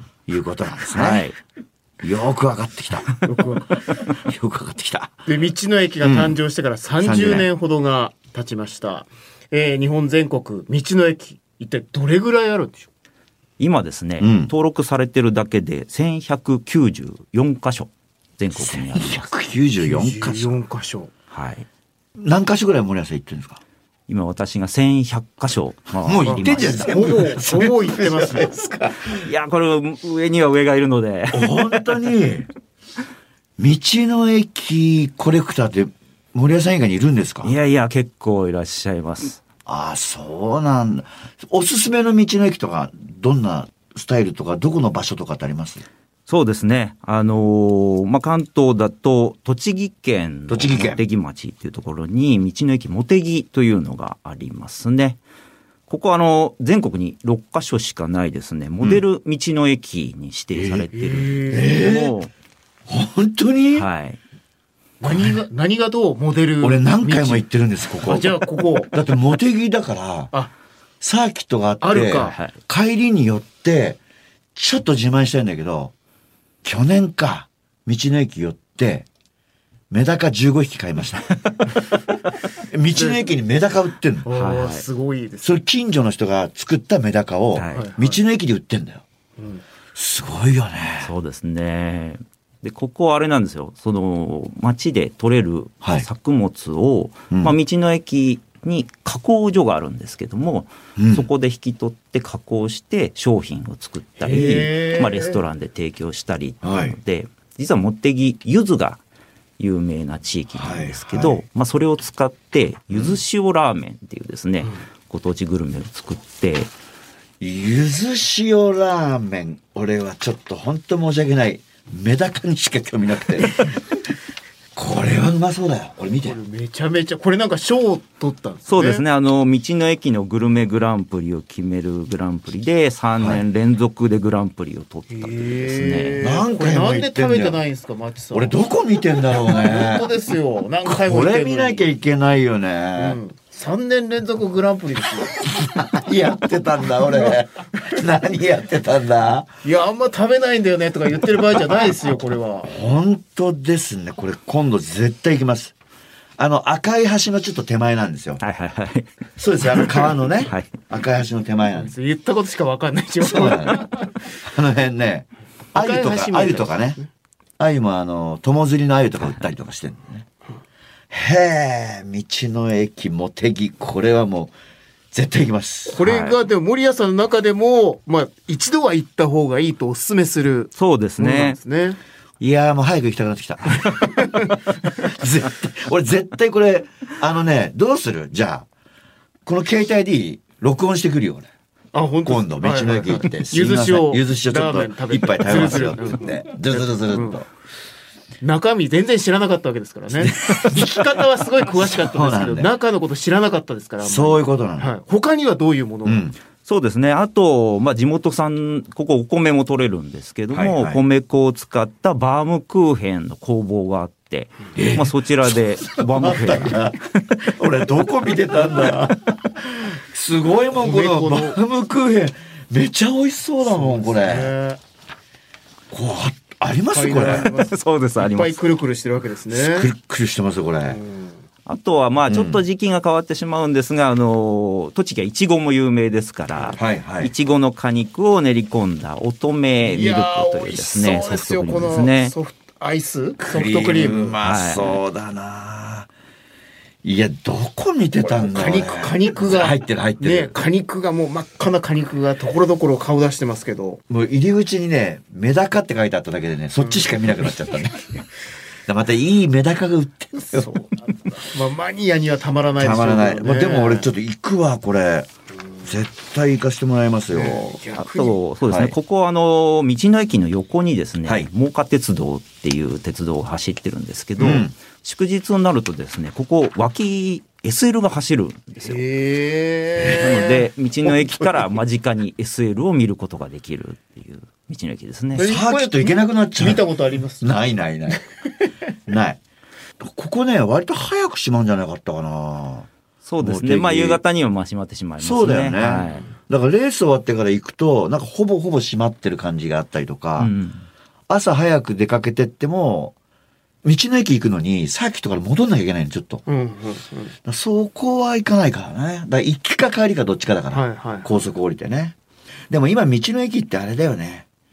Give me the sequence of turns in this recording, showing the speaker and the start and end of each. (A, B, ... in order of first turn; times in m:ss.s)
0:00.3-0:01.3 A
0:00.9-0:01.4 B
0:02.0-0:03.2 A
0:03.2-0:03.8 C
0:04.1-0:05.2 A
0:05.3-0:12.9 C
0:06.0-0:06.4 A
0:07.0-0:07.5 A
0:13.6-0:19.3 B
0:14.2-0:14.5 A
0:18.6-0:20.6 A
0:19.8-0:21.1 C
0:21.3-0:21.7 B
0:22.2-0:23.6 A
0:24.1-0:27.0 B
0:26.0-0:29.3 A
0:26.2-0:28.5 C
0:29.1-0:32.0 B
0:31.3-0:32.5 A
0:33.6-0:37.6 A
0:37.4-0:39.4 B
0:39.7-0:45.8 A
0:46.3-0:55.2 B
0:50.5-0:51.0 A
0:55.9-1:02.3 B
1:00.6-1:00.9 A
1:00.9-1:01.8 C
1:01.5-1:02.2 A
1:02.9-1:03.9 A
1:03.7-1:04.2 B
1:05.0-1:07.4 C
1:05.1-1:05.3 A
1:06.6-1:10.3 A
1:08.0-1:08.9 C
1:11.0-1:14.0 A
1:11.8-1:12.4 C
1:12.1-1:12.6 B
1:14.6-1:15.9 A
1:16.6-1:19.1 A
1:19.9-1:21.4 A
1:22.6-1:24.3 A
1:22.9-1:23.2 C
1:24.2-1:25.6 C
1:24.3-1:24.8 B
1:25.4-1:29.0 A
1:27.5-1:27.9 B
1:27.7-1:28.2 C
1:29.4-1:29.6 C
1:30.0-1:31.1 A
1:31.0-1:49.0 B
1:41.0-1:41.3 A
1:44.2-1:45.4 C
1:46.6-1:47.0 A
1:49.6-1:56.7 B
1:50.6-1:51.4 A
1:52.9-1:53.2 A
1:57.4-2:04.0 A
2:04.8-2:06.4 A
2:06.2-2:09.0 C
2:08.7-2:16.2 B
2:13.2-2:13.4 A
2:15.1-2:18.6 C
2:16.2-2:17.6 A
2:18.3-2:20.1 A
2:19.3-2:21.9 C
2:20.8-2:23.2 A
2:23.0-2:25.4 C
2:25.4-2:29.5 A
2:27.1-2:27.4 C
2:29.6-2:32.7 C
2:32.6-2:35.8 A
2:36.4-2:38.4 A
2:38.4-2:39.1 B
2:39.4-2:41.9 A
2:39.7-2:40.7 B
2:41.8-2:44.1 C
2:43.2-2:47.0 A
2:45.7-2:47.1 C
2:47.6-2:50.3 A
2:51.1-2:54.5 A
2:55.1-2:56.0 A
2:55.9-3:02.0 C
2:56.0-2:56.4 B
3:00.8-3:01.6 B
3:02.4-3:08.7 A
3:03.8-3:04.6 C
3:09.5-3:11.5 A
3:11.9-3:17.4 C
3:12.2-3:17.5 A
3:18.4-3:26.3 C
3:20.2-3:22.7 A
3:24.0-3:24.9 A
3:26.0-3:26.4 A
3:26.6-3:36.9 B
3:30.5-3:31.0 A
3:34.8-3:44.5 A
3:40.7-3:41.6 C
3:43.6-3:44.8 C
3:45.9-3:47.5 A
3:46.9-3:49.9 C
3:47.3-3:48.6 B
3:49.5-3:51.0 A
3:50.9-3:51.4 C
3:51.7-4:02.3 B
3:52.3-3:52.6 A
3:56.8-3:57.3 A
3:59.8-4:04.4 C
4:03.4-4:06.1 A
4:04.4-4:05.0 B
4:07.0-4:10.5 A
4:08.2-4:14.0 C
4:14.1-4:18.3 A
4:16.8-4:17.1 C
4:18.9-4:20.8 A
4:20.5-4:24.1 C
4:22.8-4:25.3 A
4:25.8-4:27.9 A
4:27.3-4:28.4 C
4:28.0-4:39.0 B
4:28.7-4:29.0 A
4:34.4-4:34.7 A
4:38.8-4:40.7 C
4:40.1-4:45.4 B
4:45.4-4:46.8 A
4:45.4-4:47.5 C
4:47.4-4:48.2 A
4:49.1-4:49.4 A
4:50.0-4:52.9 A
4:53.2-4:56.3 B
4:53.4-4:54.2 A
4:55.2-5:00.5 A
5:00.4-5:00.9 B
5:01.3-5:03.2 A
5:03.8-5:06.4 A
5:06.5-5:07.3 C
5:07.4-5:12.2 A
5:10.7-5:11.4 C
5:12.7-5:14.5 A